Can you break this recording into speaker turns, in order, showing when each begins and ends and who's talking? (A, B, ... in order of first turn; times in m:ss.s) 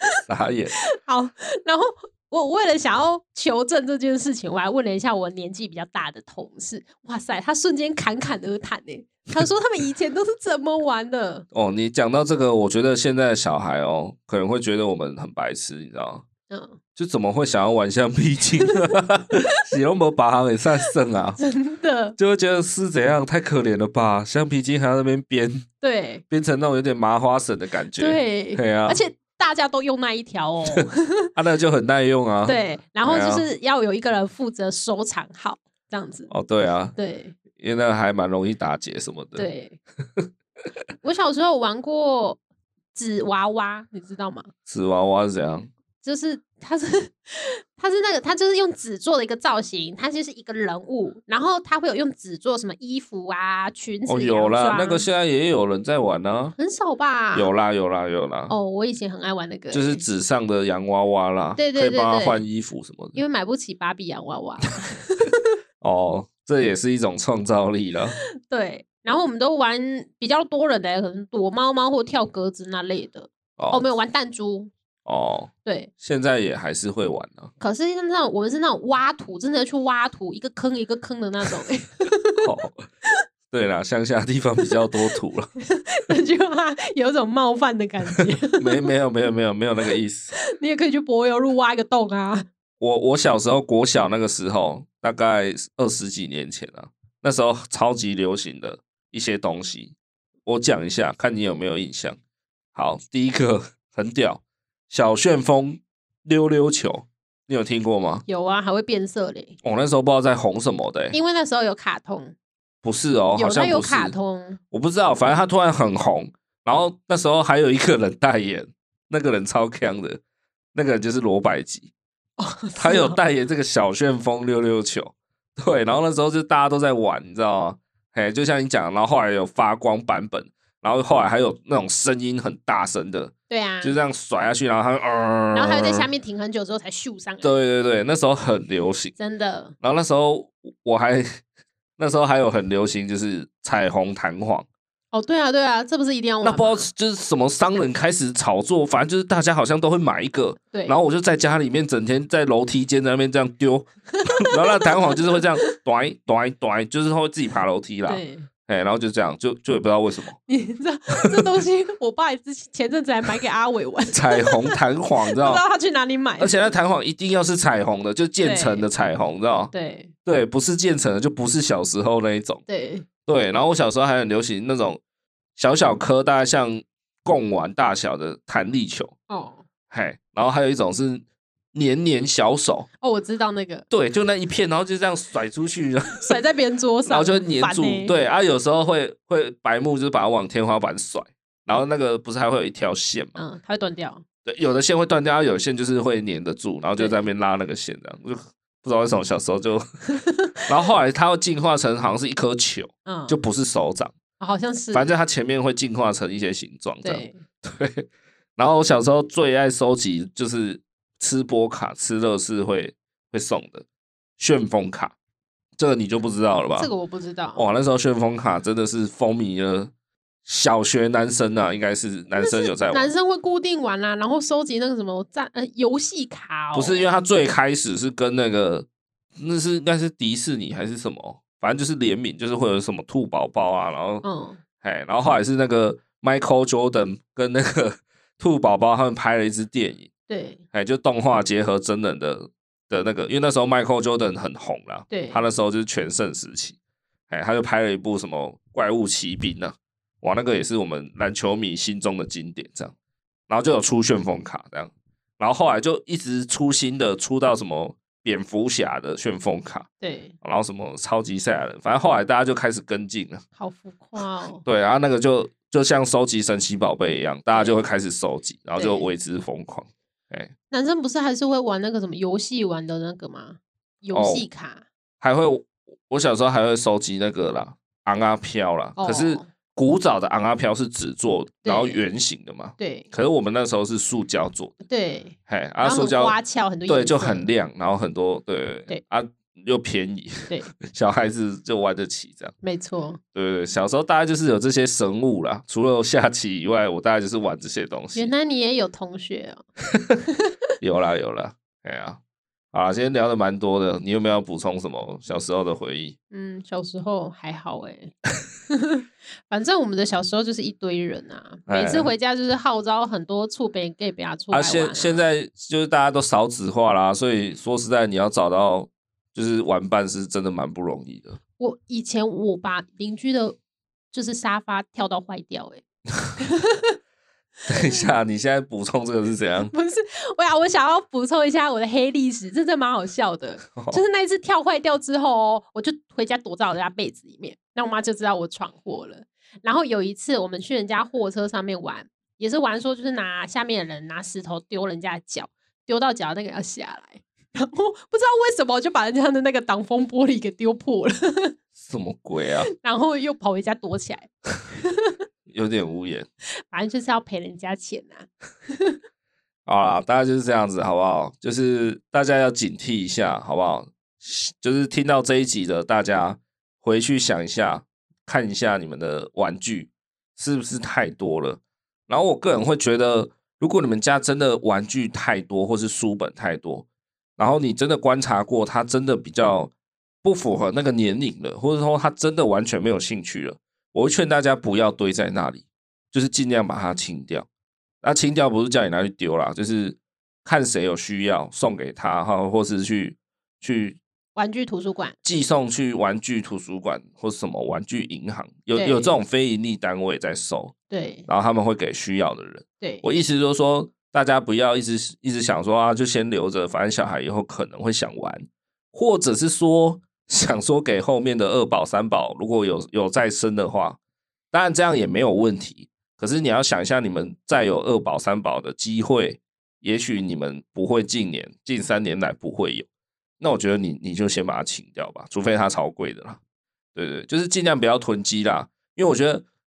0:00.2-0:00.8 A
0:01.0-0:11.4 B
0:11.5-0:16.2 A
0:16.5-0:16.8 B
0:17.0-0:21.4 A
0:21.4-0:22.2 B
0:22.2-0:25.6 A
0:25.8-0:26.2 B
0:26.3-0:29.0 A
0:28.0-0:31.3 B
0:31.3-0:33.4 A
0:32.4-0:36.3 B
0:36.3-0:36.9 A
0:36.9-0:37.4 B
0:37.6-0:39.5 A
0:39.4-0:39.8 B
0:41.0-0:42.4 B
0:42.9-0:44.5 B
0:44.7-0:45.7 A
0:46.0-0:55.1 B
0:54.1-0:56.5 A
0:56.6-0:57.5 B
0:57.3-0:58.5 A
0:58.5-1:00.0 B
0:59.7-1:03.2 A
1:01.6-1:02.4 B
1:03.1-1:05.5 B
1:05.8-1:08.2 A
1:08.5-1:14.7 B
1:13.6-1:13.9 A
1:15.0-1:17.5 A
1:15.6-1:15.9 B
1:17.6-1:22.4 B
1:22.4-1:22.8 A
1:23.5-1:25.5 A
1:25.6-1:28.9 B
1:28.4-1:30.3 A
1:30.5-1:32.4 B
1:32.8-1:39.9 A
1:40.4-1:42.2 A
1:42.7-1:48.2 A
1:48.2-1:49.6 B
1:49.6-1:51.2 A
1:51.1-1:52.3 B
1:52.8-1:54.2 A
1:53.4-1:54.6 B
1:54.7-2:00.2 A
2:00.7-2:01.9 A
2:02.4-2:03.2 B
2:02.8-2:16.1 A
2:13.5-2:14.0 B
2:15.5-2:17.5 B
2:17.4-2:19.1 A
2:19.2-2:19.7 B
2:19.8-2:21.3 A
2:22.0-2:24.7 A
2:25.1-2:26.9 B
2:26.4-2:40.4 A
2:34.2-2:35.7 B
2:38.0-2:38.5 B
2:40.5-2:44.8 B
2:44.1-2:45.6 A
2:45.3-2:46.7 B
2:46.4-2:49.7 A
2:48.4-2:48.9 B
2:49.7-2:50.1 B
2:50.2-2:52.6 A
2:52.7-2:53.0 B
2:53.2-2:55.0 A
2:55.6-2:59.1 A
2:59.3-2:59.6 B
2:59.9-3:02.9 A
3:03.0-3:03.8 B
3:03.9-3:06.4 A
3:06.1-3:08.1 B
3:07.1-3:13.4 A
3:13.4-3:14.2 B
3:14.4-3:19.8 A
3:17.0-3:17.2 B
3:20.1-3:20.6 B
3:20.7-3:24.1 A
3:23.0-3:23.4 B
3:24.4-3:25.1 B
3:24.9-3:33.8 A
3:27.0-3:27.4 B
3:34.4-3:35.1 A
3:35.8-3:36.9 A
3:36.7-3:37.7 B
3:37.5-3:39.9 A
3:40.4-3:43.1 A
3:42.3-3:47.1 B
3:46.7-3:48.8 A
3:49.4-3:54.2 A
3:54.2-3:54.6 B
3:54.8-4:00.1 A
4:00.3-4:00.6 B
4:00.7-4:06.8 A
4:05.1-4:05.4 B
4:07.3-4:12.9 A
4:13.5-4:19.9 A
4:20.0-4:20.3 B
4:20.4-4:23.4 A
4:23.6-4:24.6 B
4:24.6-4:30.5 A
4:27.5-4:27.8 B
4:28.8-4:29.1 B
4:30.7-4:34.8 B
4:34.1-4:34.5 A
4:35.2-4:44.8 A
4:39.0-4:39.5 B
4:41.6-4:42.0 B
4:42.8-4:43.1 B
4:44.9-4:47.5 B
4:45.5-4:52.5 A
4:52.6-4:53.2 B
4:53.3-4:58.3 A
4:58.1-4:59.6 B
5:00.8-5:02.2 A
5:02.7-5:06.2 A
5:06.3-5:08.1 B
5:08.7-5:15.2 B
5:11.7-5:12.1 A
5:14.5-5:21.4 A
5:21.6-5:23.6 B
5:24.1-5:25.8 B
5:26.4-5:27.0 B
5:27.7-5:28.1 B
5:27.7-5:29.7 A
5:29.7-5:51.5 B
5:33.7-5:34.0 A
5:51.8-5:52.7 A
5:52.8-5:54.3 B
5:54.8-5:55.1 B
5:55.5-5:56.3 A
5:56.7-5:59.0 B
5:59.6-6:16.8 A
6:17.4-6:19.7 A
6:20.2-6:27.5 A
6:28.0-6:34.0 A
6:34.4-6:35.2 B
6:35.2-6:40.7 A
6:38.7-6:39.1 B
6:40.9-6:41.3 B
6:41.3-6:54.0 A
6:54.5-7:02.8 A
7:03.4-7:06.4 A
7:06.9-7:09.4 A